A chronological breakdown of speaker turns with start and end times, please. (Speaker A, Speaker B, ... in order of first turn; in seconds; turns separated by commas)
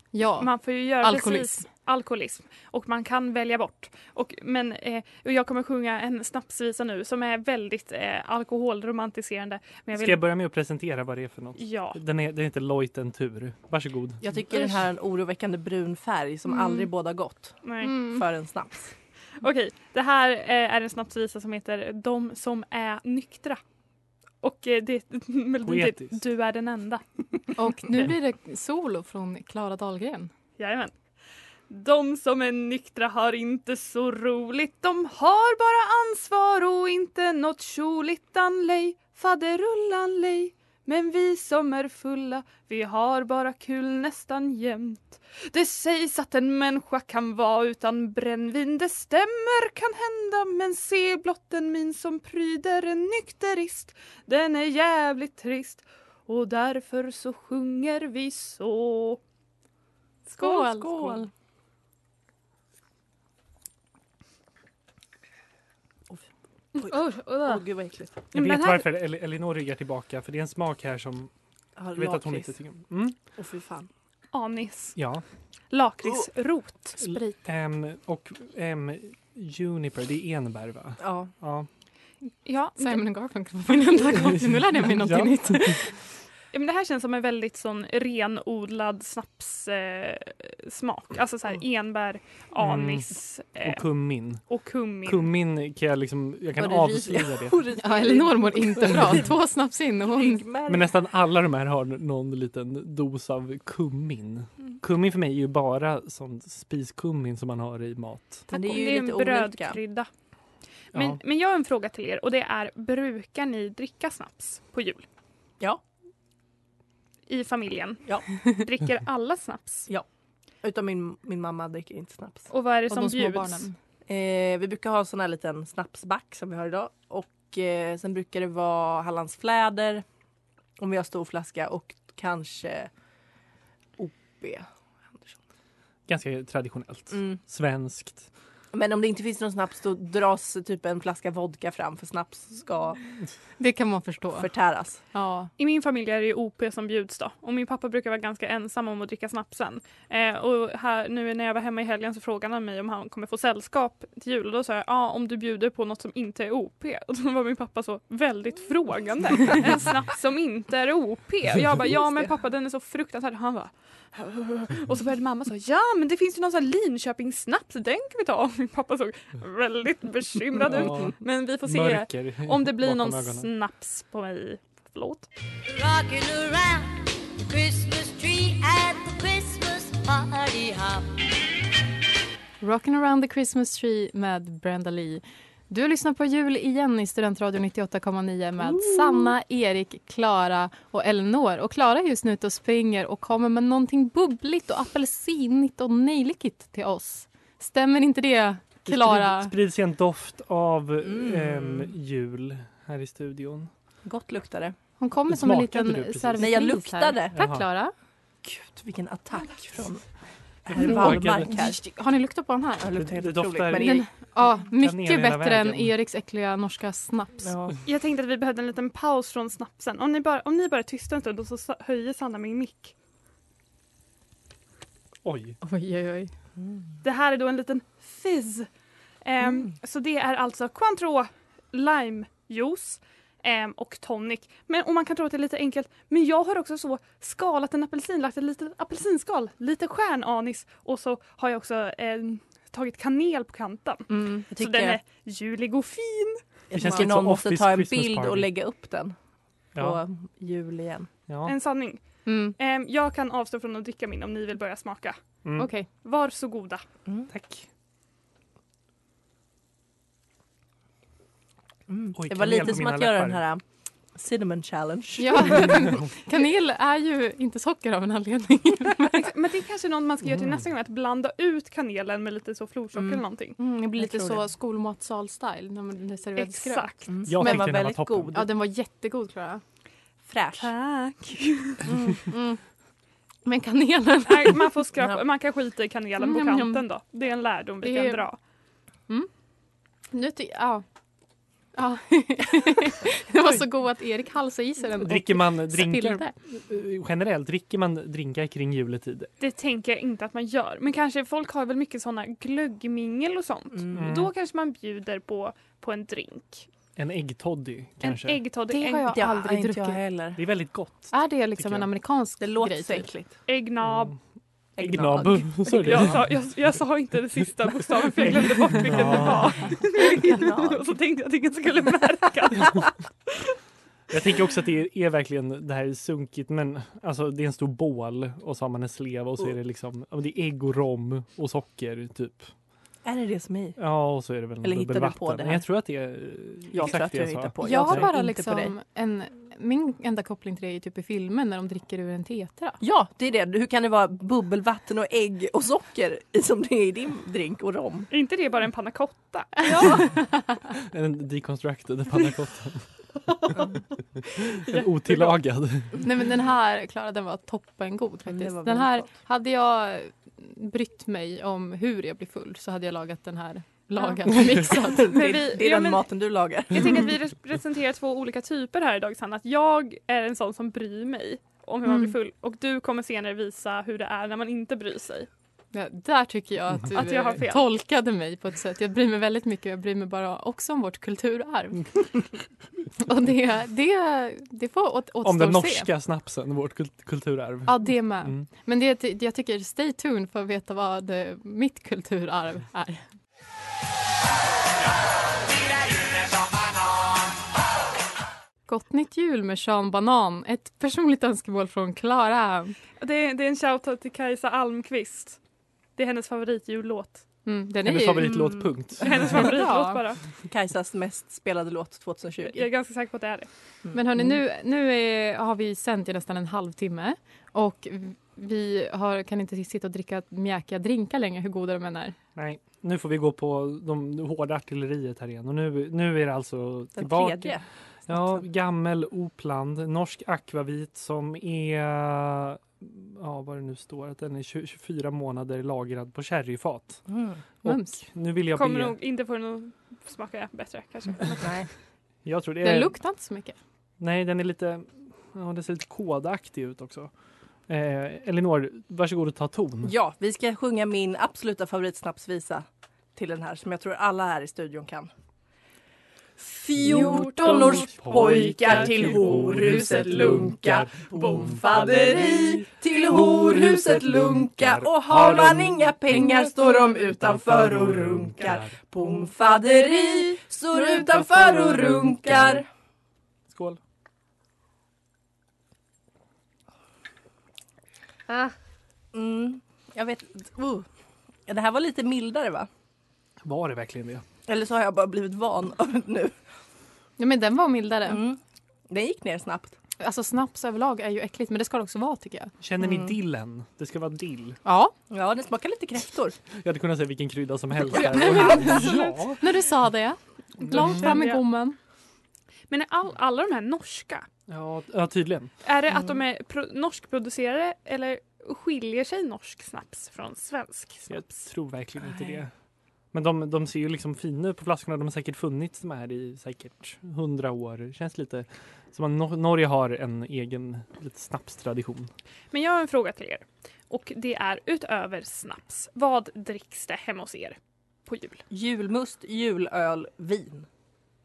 Speaker A: 0.1-1.7, Speaker B: 0.4-10.2, Speaker C: 9.9-14.2, Speaker B: 11.6-12.0, Speaker D: 14.2-18.9, Speaker B: 17.6-18.0, Speaker A: 17.8-18.2, Speaker B: 19.4-23.6, Speaker B: 24.4-27.0, Speaker C: 25.6-26.2, Speaker A: 27.6-30.3, Speaker B: 30.6-30.9, Speaker B: 31.7-59.2, Speaker A: 60.3-61.3, Speaker D: 60.4-61.3, Speaker D: 66.8-68.2, Speaker B: 66.9-67.6, Speaker C: 68.3-71.3, Speaker B: 68.3-68.9, Speaker D: 71.8-72.5, Speaker C: 71.9-73.2, Speaker D: 73.4-73.9, Speaker B: 74.3-75.0, Speaker C: 75.0-75.2, Speaker B: 75.7-77.1, Speaker C: 77.0-81.7, Speaker D: 81.0-81.3, Speaker B: 82.5-83.0, Speaker A: 82.8-85.9, Speaker C: 84.1-85.8, Speaker B: 86.5-93.8, Speaker C: 92.6-94.4, Speaker B: 94.5-95.3, Speaker C: 95.0-97.6, Speaker D: 96.6-99.3, Speaker A: 97.8-100.4, Speaker D: 100.1-100.9, Speaker C: 100.7-108.5, Speaker D: 108.5-109.8, Speaker B: 108.5-110.1, Speaker C: 110.9-111.2, Speaker B: 110.9-115.0, Speaker B: 117.3-119.9, Speaker D: 120.6-122.5, Speaker B: 122.5-123.7, Speaker A: 122.9-123.8, Speaker D: 124.1-130.0, Speaker D: 130.8-132.9, Speaker D: 134.0-135.3, Speaker C: 136.1-138.3, Speaker D: 137.1-137.4, Speaker D: 138.7-143.0, Speaker A: 143.6-144.5, Speaker D: 144.4-145.0, Speaker A: 145.1-145.5, Speaker B: 145.6-175.3, Speaker C: 170.6-173.5, Speaker E: 175.7-181.2, Speaker A: 182.6-199.5, Speaker D: 188.6-189.3, Speaker C: 198.8-203.7, Speaker D: 201.0-201.9, Speaker D: 204.1-204.8, Speaker A: 205.0-207.9, Speaker C: 205.3-206.7, Speaker D: 206.4-207.4, Speaker C: 207.3-207.7, Speaker D: 208.4-210.1, Speaker D: 210.7-211.8, Speaker C: 210.7-211.5, Speaker A: 210.8-212.9, Speaker D: 212.8-214.0, Speaker C: 213.0-214.0, Speaker A: 213.7-217.5, Speaker C: 214.7-215.9, Speaker D: 217.4-217.8, Speaker B: 217.9-222.9, Speaker C: 225.2-225.6, Speaker A: 225.6-226.3, Speaker B: 227.0-228.7, Speaker B: 229.2-246.4, Speaker D: 244.1-245.0, Speaker D: 246.7-249.2, Speaker C: 246.7-248.5, Speaker D: 249.8-251.1, Speaker C: 251.3-251.5, Speaker B: 251.4-255.2, Speaker A: 252.3-252.6, Speaker C: 255.4-255.7, Speaker A: 255.6-255.9, Speaker B: 255.9-256.8, Speaker C: 257.3-257.6, Speaker D: 261.9-263.6, Speaker C: 262.2-263.4, Speaker D: 264.1-265.9, Speaker A: 265.2-269.3, Speaker B: 269.1-273.6, Speaker C: 270.2-270.6, Speaker D: 272.9-273.2, Speaker A: 273.6-277.7, Speaker D: 274.0-274.4, Speaker B: 276.4-277.1, Speaker D: 277.1-278.4, Speaker C: 277.2-278.4, Speaker A: 278.3-279.6, Speaker D: 280.3-280.7, Speaker B: 280.6-281.8, Speaker D: 281.9-282.2, Speaker A: 282.1-282.6, Speaker A: 283.4-284.7, Speaker B: 284.3-288.4, Speaker A: 286.2-286.8, Speaker A: 287.8-288.3, Speaker A: 290.1-290.9, Speaker A: 291.8-296.3, Speaker C: 295.0-299.3, Speaker B: 299.4-306.7, Speaker C: 303.9-304.3, Speaker C: 307.0-308.4, Speaker B: 308.0-309.2, Speaker A: 308.7-310.0, Speaker D: 309.1-310.4, Speaker C: 310.4-311.9, Speaker A: 311.1-313.1, Speaker D: 312.4-313.4, Speaker B: 313.5-314.1, Speaker C: 313.9-314.2, Speaker D: 314.8-316.1, Speaker C: 314.8-316.2, Speaker B: 315.7-323.4, Speaker C: 318.2-319.7, Speaker D: 319.9-320.9, Speaker C: 324.1-332.5, Speaker D: 333.0-334.1, Speaker C: 333.8-338.1, Speaker D: 334.6-335.7, Speaker D: 336.7-338.7, Speaker A: 337.6-342.8, Speaker D: 342.8-348.1, Speaker B: 348.1-350.1, Speaker A: 349.8-350.1, Speaker C: 350.9-353.7, Speaker C: 354.3-356.0, Speaker A: 356.0-365.1, Speaker D: 358.3-359.1, Speaker D: 364.8-367.1, Speaker B: 365.1-366.1, Speaker B: 366.7-375.3, Speaker A: 371.9-372.1, Speaker A: 375.7-382.1, Speaker B: 376.9-377.6, Speaker A: 383.0-385.9, Speaker C: 385.2-388.4, Speaker A: 387.7-393.0, Speaker A: 398.7-402.8, Speaker B: 403.0-405.4, Speaker B: 406.0-407.2, Speaker A: 407.5-408.5, Speaker C: 407.8-409.4, Speaker D: 408.3-409.6, Speaker B: 409.0-410.2, Speaker A: 409.4-410.0, Speaker D: 410.5-412.6, Speaker B: 412.4-413.5, Speaker D: 413.9-414.4, Speaker A: 413.9-422.2, Speaker C: 422.4-437.1, Speaker D: 427.0-428.4, Speaker D: 437.1-437.4, Speaker C: 437.6-439.0, Speaker A: 437.6-438.0, Speaker B: 438.6-441.6, Speaker D: 441.4-441.7, Speaker C: 442.2-443.0, Speaker A: 442.6-443.6, Speaker C: 444.0-447.1, Speaker C: 447.7-449.9, Speaker D: 449.8-455.1, Speaker D: 456.4-472.7, Speaker C: 456.9-460.9, Speaker C: 464.7-465.7, Speaker C: 468.4-468.7, Speaker C: 473.5-473.8, Speaker D: 478.3-478.5, Speaker D: 479.1-480.9, Speaker D: 481.5-482.7, Speaker C: 483.4-484.2, Speaker D: 484.5-486.3, Speaker A: 487.2-488.2, Speaker D: 488.1-489.8, Speaker A: 490.0-492.5, Speaker C: 492.6-494.6, Speaker D: 492.8-493.1, Speaker A: 494.6-494.9, Speaker D: 495.1-496.4, Speaker C: 496.6-499.4, Speaker D: 497.9-499.1, Speaker A: 498.5-498.8, Speaker A: 499.4-501.8, Speaker C: 500.6-501.1, Speaker B: 501.0-501.4, Speaker B: 502.7-504.3, Speaker C: 504.5-505.5, Speaker B: 505.6-511.4, Speaker C: 511.1-512.5, Speaker C: 513.1-522.1, Speaker B: 522.5-528.4, Speaker D: 528.5-530.7